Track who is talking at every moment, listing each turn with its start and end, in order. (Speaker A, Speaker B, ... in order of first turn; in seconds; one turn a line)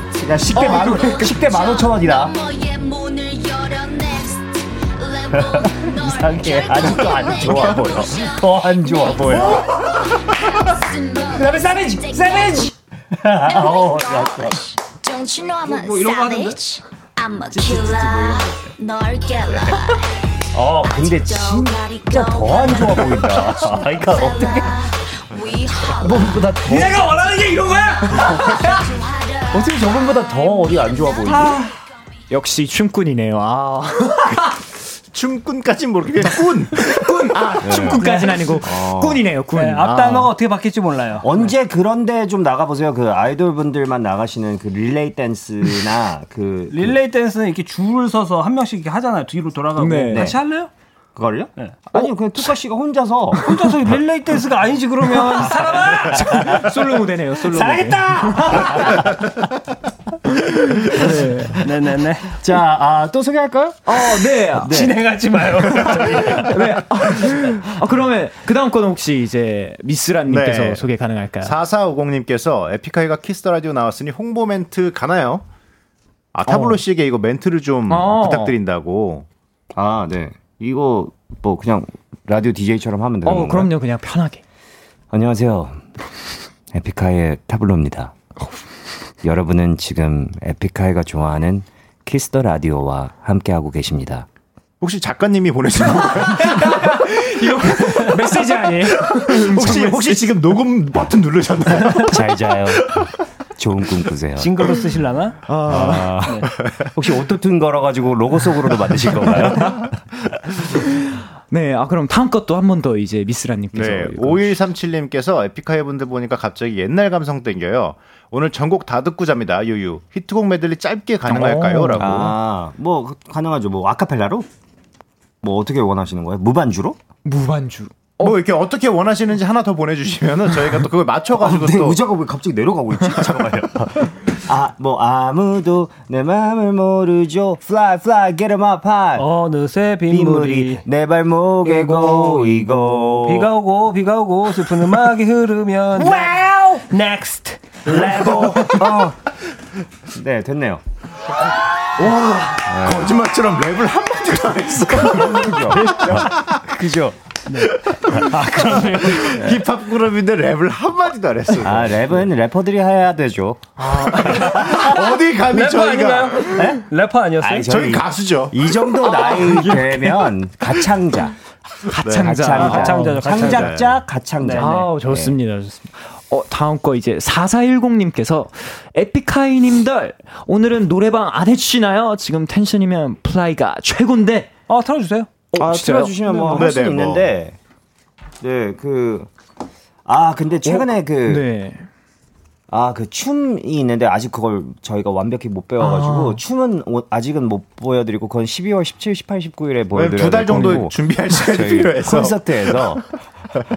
Speaker A: 0.1-2.3
Speaker B: 0.5-1.3
Speaker C: 0.6-12.7
Speaker A: 5.3-9.7
Speaker D: 7.3-8.1
Speaker A: 11.3-14.8
Speaker C: 13.4-20.0
Speaker E: 15.7-16.6
Speaker A: 17.6-18.5
Speaker A: 20.5-24.8
Speaker C: 20.7-26.5
Speaker A: 26.0-27.1
Speaker B: 26.7-28.8
Speaker C: 27.6-31.4
Speaker A: 28.2-28.7
Speaker A: 29.5-31.6
Speaker B: 31.3-31.7
Speaker B: 32.3-34.6
Speaker D: 35.1-37.1
Speaker B: 36.8-40.3
Speaker A: 37.6-38.0
Speaker E: 38.0-38.6
Speaker A: 38.6-39.2
Speaker E: 39.5-41.5
Speaker A: 41.2-47.0
Speaker E: 46.7-50.7
Speaker B: 49.8-50.3
Speaker A: 50.1-50.4
Speaker A: 51.1-53.5
Speaker B: 51.9-52.5
Speaker E: 53.4-56.5
Speaker B: 56.0-59.1
Speaker A: 56.4-56.7
Speaker A: 57.4-59.1
Speaker B: 60.3-61.6
Speaker E: 61.5-62.4
Speaker A: 62.4-65.0
Speaker B: 63.9-64.8
Speaker E: 64.7-66.6
Speaker B: 65.9-71.5
Speaker D: 70.3-70.9
Speaker D: 71.4-75.5
Speaker D: 76.3-79.3
Speaker B: 76.5-76.8
Speaker B: 77.9-78.6
Speaker A: 79.8-83.7
Speaker B: 83.2-84.4
Speaker A: 85.1-85.8
Speaker A: 86.7-88.1
Speaker A: 89.2-94.3
Speaker D: 94.8-96.9
Speaker B: 96.0-100.3
Speaker D: 99.1-102.2
Speaker A: 102.1-104.6
Speaker E: 104.4-105.4
Speaker B: 105.5-106.2
Speaker A: 105.7-109.9
Speaker E: 106.2-106.5
Speaker D: 109.5-109.9
Speaker B: 110.8-114.5
Speaker D: 113.7-122.4
Speaker B: 121.3-122.3
Speaker A: 122.0-124.5
Speaker A: 125.4-127.0
Speaker B: 127.2-128.4
Speaker D: 128.2-132.0
Speaker A: 131.4-139.3
Speaker E: 139.2-140.8
Speaker A: 140.1-143.5
Speaker E: 141.6-148.8
Speaker A: 146.0-146.8
Speaker A: 147.9-149.2
Speaker A: 150.1-150.8
Speaker B: 152.0-152.7
Speaker A: 152.7-153.1
Speaker D: 152.8-156.7
Speaker A: 155.0-157.2
Speaker E: 157.5-159.2
Speaker D: 157.9-162.2
Speaker A: 158.3-159.6
Speaker A: 161.6-163.6
Speaker B: 163.8-164.8
Speaker D: 164.3-166.6
Speaker A: 164.3-164.7
Speaker E: 165.5-167.7
Speaker A: 166.5-166.8
Speaker A: 167.4-171.3
Speaker D: 167.7-168.6
Speaker B: 169.0-170.3
Speaker B: 171.8-173.3
Speaker D: 172.0-172.3
Speaker A: 172.2-175.3
Speaker E: 172.5-173.8
Speaker D: 173.4-174.0
Speaker E: 174.4-174.8
Speaker B: 174.5-184.5
Speaker E: 184.7-185.3
Speaker B: 185.5-186.6
Speaker A: 185.6-187.6
Speaker D: 186.5-187.3
Speaker A: 188.4-189.3
Speaker A: 190.1-191.4
Speaker B: 190.7-191.8
Speaker A: 192.7-203.0
Speaker B: 195.8-196.4
Speaker D: 199.9-202.9
Speaker B: 200.5-200.8